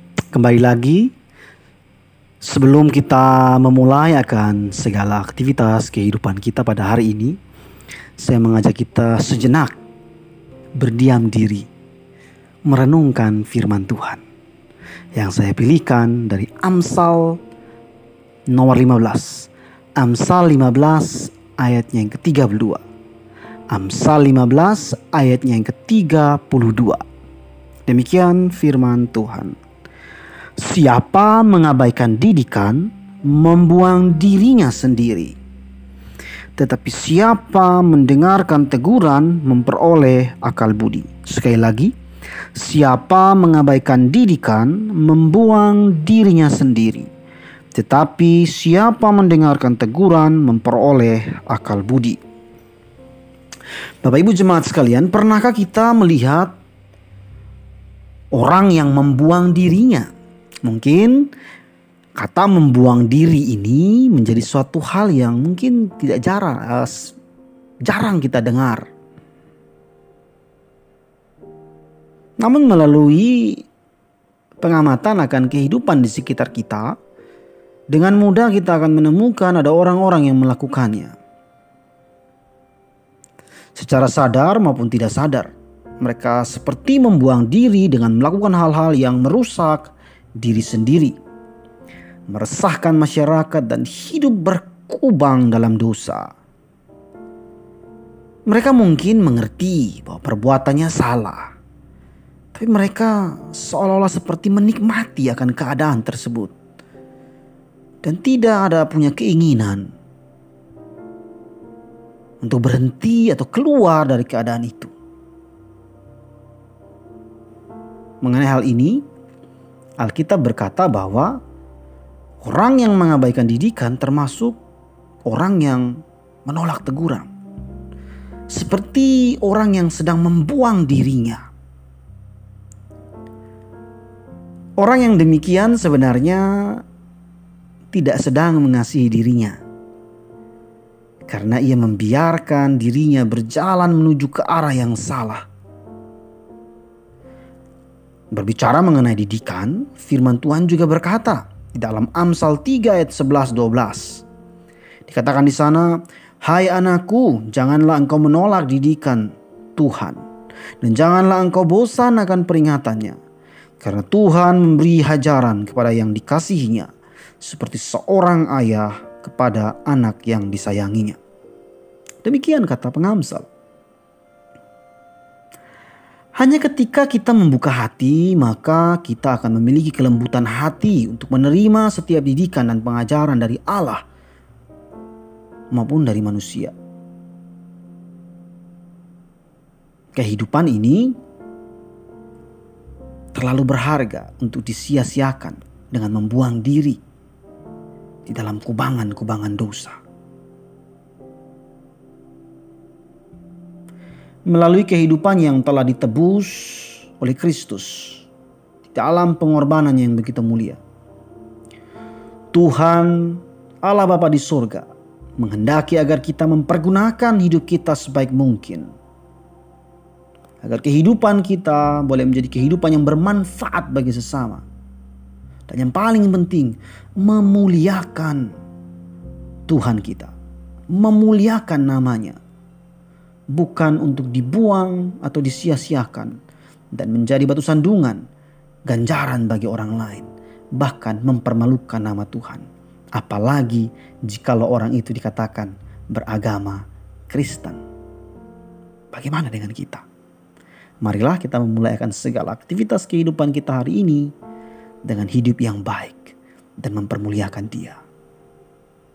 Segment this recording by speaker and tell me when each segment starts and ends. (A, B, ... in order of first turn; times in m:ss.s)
0:00.3-0:01.1 A
0:02.4-0:07.4 A
0:08.2-0:09.8 A
0:10.8-0:11.7 A
0:12.6-0:14.2 A
0:15.1-0:17.4 A
0:18.5-0:22.8 A
0:23.7-0:27.0 A
0:27.8-0:29.6 A
0:30.6-0:35.4 A
0:36.6-0:41.9 A
0:42.6-0:47.1 A
0:47.7-0:52.2 A
0:54.0-0:56.5 A
0:58.3-1:00.1 A
1:00.6-1:01.3 A
1:02.2-1:07.2 A
1:07.8-1:08.9 A
1:12.4-1:13.6 A
1:14.6-1:16.9 A
1:17.9-1:21.2 A
1:23.8-1:31.2 A
1:32.3-1:36.3 A
1:38.5-1:41.5 A
1:42.5-1:46.5 A
1:48.0-1:49.9 A
1:52.4-1:54.9 A
1:58.2-1:59.0 A
2:00.0-2:01.4 A
2:02.4-2:04.6 A
2:05.2-2:07.3 A
2:08.5-2:11.4 A
2:14.8-2:16.8 A
2:17.9-2:19.6 A
2:21.3-2:25.4 A
2:28.3-2:34.2 A
2:35.1-2:40.2 A
2:40.8-2:43.2 A
2:43.8-2:46.9 A
2:47.4-2:51.2 A
2:52.2-2:53.5 A
2:56.4-3:04.0 A
3:05.7-3:06.7 A
3:10.1-3:11.1 A
3:13.3-3:17.0 A
3:18.2-3:20.0 A
3:24.5-3:28.2 A
3:28.9-3:30.8 A
3:32.5-3:38.9 A
3:40.6-3:44.6 A
3:45.7-3:48.5 A
3:49.7-3:50.3 A
3:50.9-3:52.4 A
3:53.5-3:56.3 A
3:56.9-3:58.2 A
3:58.9-4:02.6 A
4:03.1-4:07.8 A
4:09.1-4:10.0 A
4:11.0-4:14.3 A
4:15.0-4:18.0 A